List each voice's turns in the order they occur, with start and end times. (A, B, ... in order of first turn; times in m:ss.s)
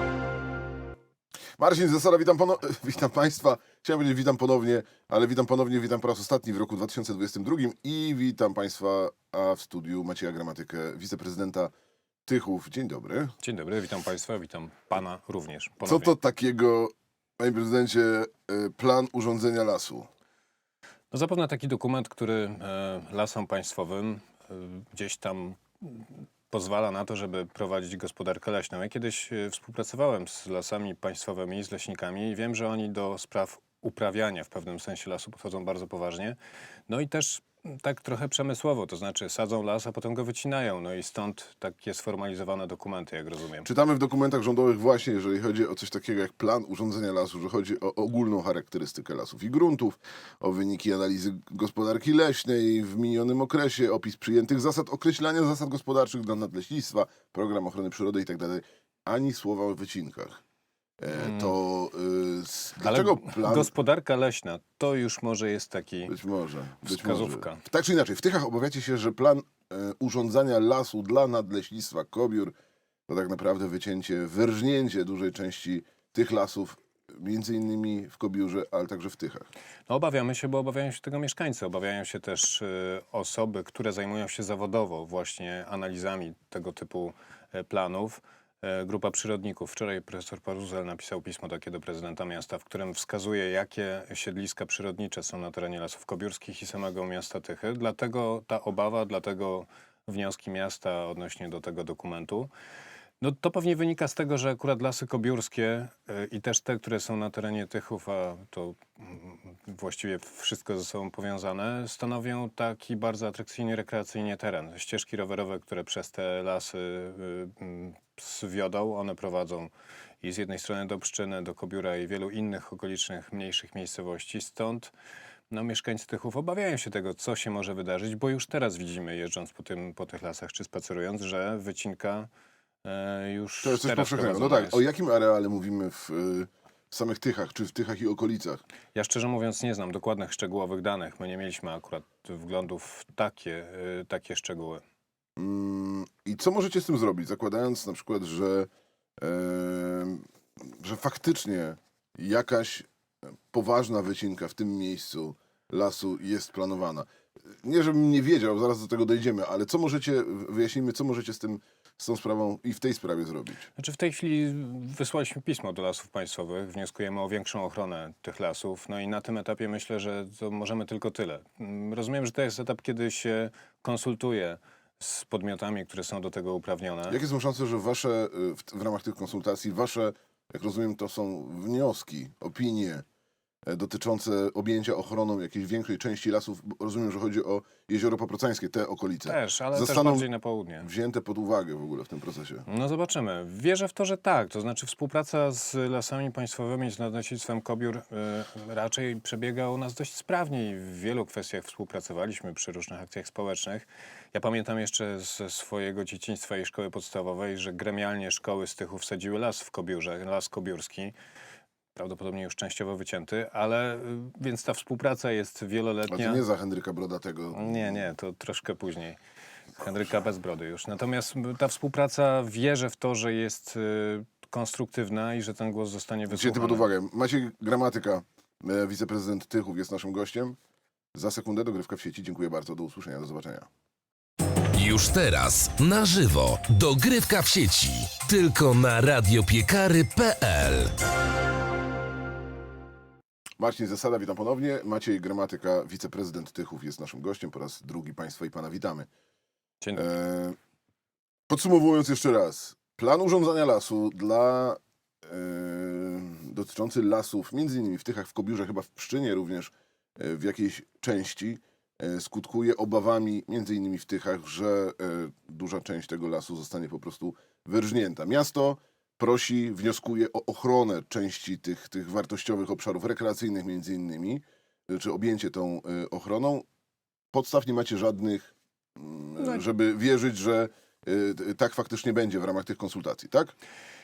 0:01.6-0:11.7 A
0:12.2-0:13.3 A
0:13.4-0:16.1 B
0:15.8-0:20.1 A
0:21.1-0:36.4 B
0:36.9-0:43.7 B
0:43.6-1:00.4 A
1:01.0-1:03.7 A
1:01.2-1:01.5 B
1:02.8-1:06.1 B
1:06.1-1:12.5 A
1:06.8-1:07.6 B
1:13.1-1:19.5 A
1:19.9-1:42.5 B
1:43.2-1:59.7 B
2:00.2-2:04.9 B
2:05.5-2:12.3 B
2:12.8-2:14.8 B
2:13.6-2:18.6 A
2:18.9-2:24.8 B
2:25.4-2:32.9 A
2:33.5-2:37.1 A
2:37.6-2:43.7 A
2:43.8-2:57.2 B
2:57.1-3:03.0 A
3:03.6-3:10.3 A
3:09.2-3:10.9 B
3:10.8-3:12.6 A
3:12.7-3:31.1 B
3:31.9-3:36.4 B
3:36.1-3:38.0 A
3:37.5-3:39.2 B
3:39.8-3:46.9 B
3:46.3-3:50.6 A
3:51.1-3:53.7 A
3:54.7-4:00.9 C
4:03.6-4:09.1 A
4:10.0-4:10.6 A
4:11.5-4:36.6 A
4:37.3-4:43.5 A